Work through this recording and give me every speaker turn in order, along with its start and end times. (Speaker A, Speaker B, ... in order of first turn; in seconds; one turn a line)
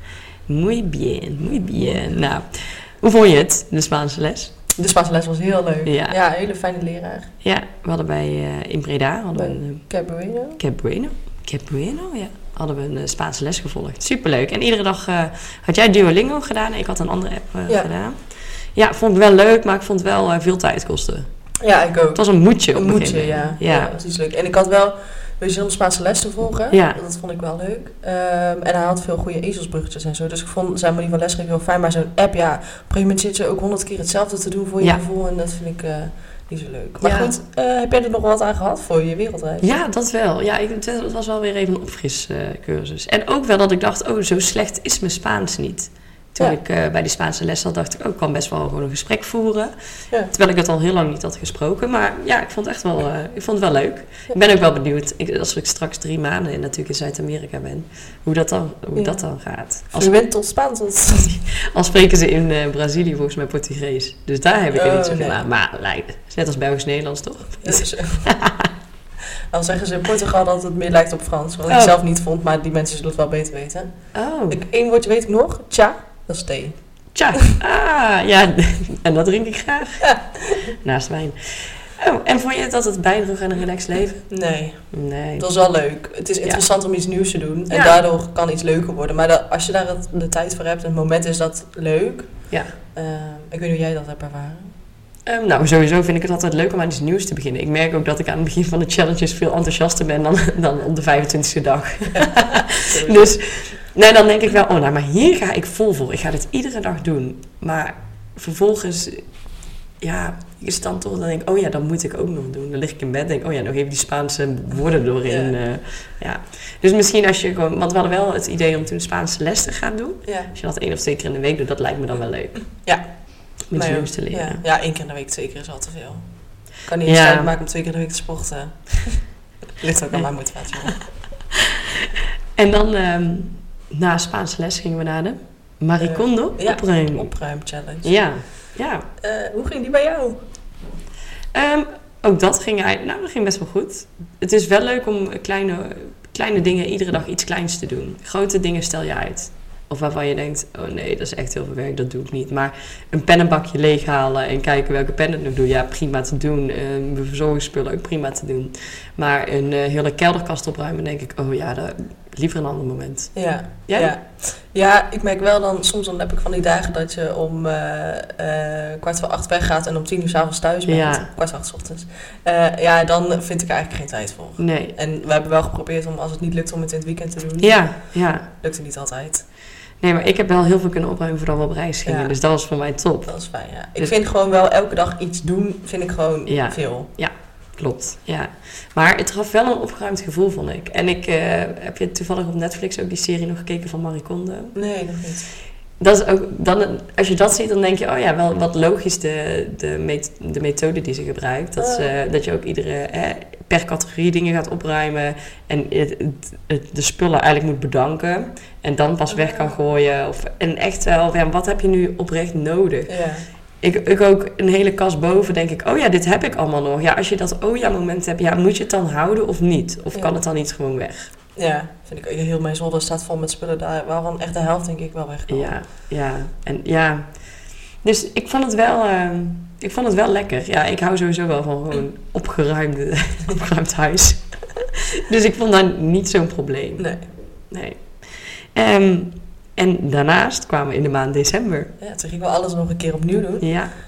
Speaker A: 0.5-4.5
Speaker B: 4.8-7.3
Speaker A: 5.8-6.2
Speaker A: 7.4-9.8
Speaker B: 9.3-10.6
Speaker A: 10.6-18.2
Speaker A: 18.7-21.3
Speaker B: 21.6-39.8
Speaker A: 22.1-23.9
Speaker A: 26.7-27.0
Speaker A: 37.0-37.3
Speaker A: 39.6-49.7
Speaker A: 50.3-60.1
Speaker B: 59.0-59.2
Speaker B: 59.9-61.5
Speaker A: 61.5-68.7
Speaker B: 64.7-65.4
Speaker B: 67.6-68.3
Speaker B: 69.5-74.0
Speaker A: 71.7-71.9
Speaker A: 74.1-74.6
Speaker B: 74.5-76.8
Speaker A: 77.1-80.1
Speaker B: 80.0-80.7
Speaker A: 80.8-84.3
Speaker B: 84.3-92.3
Speaker A: 84.9-85.5
Speaker A: 87.7-88.0
Speaker B: 92.9-94.7
Speaker A: 95.2-109.2
Speaker B: 102.2-103.4
Speaker A: 110.0-122.8
Speaker B: 115.3-115.5
Speaker B: 120.2-120.5
Speaker B: 122.8-126.2
Speaker A: 123.7-124.6
Speaker B: 126.8-129.2
Speaker A: 127.0-127.5
Speaker B: 129.8-131.0
Speaker A: 132.6-137.3
Speaker B: 136.0-138.1
Speaker A: 138.0-139.1
Speaker B: 139.2-140.4
Speaker A: 141.5-163.3
Speaker B: 163.3-177.9
Speaker A: 163.9-164.1
Speaker A: 170.8-171.3
Speaker A: 174.6-174.9
Speaker A: 177.6-178.5
Speaker B: 178.5-179.4
Speaker A: 180.0-183.3
Speaker B: 182.1-182.3
Speaker B: 183.2-187.1
Speaker A: 186.5-194.8
Speaker B: 194.7-195.5
Speaker A: 196.0-213.1
Speaker B: 201.8-202.1
Speaker B: 209.3-209.7
Speaker B: 213.1-213.5
Speaker A: 213.8-221.3
Speaker B: 221.5-225.8
Speaker A: 225.5-227.3
Speaker A: 228.0-237.1
Speaker B: 237.0-237.2
Speaker A: 237.7-241.9
Speaker B: 242.0-243.7
Speaker A: 243.6-243.9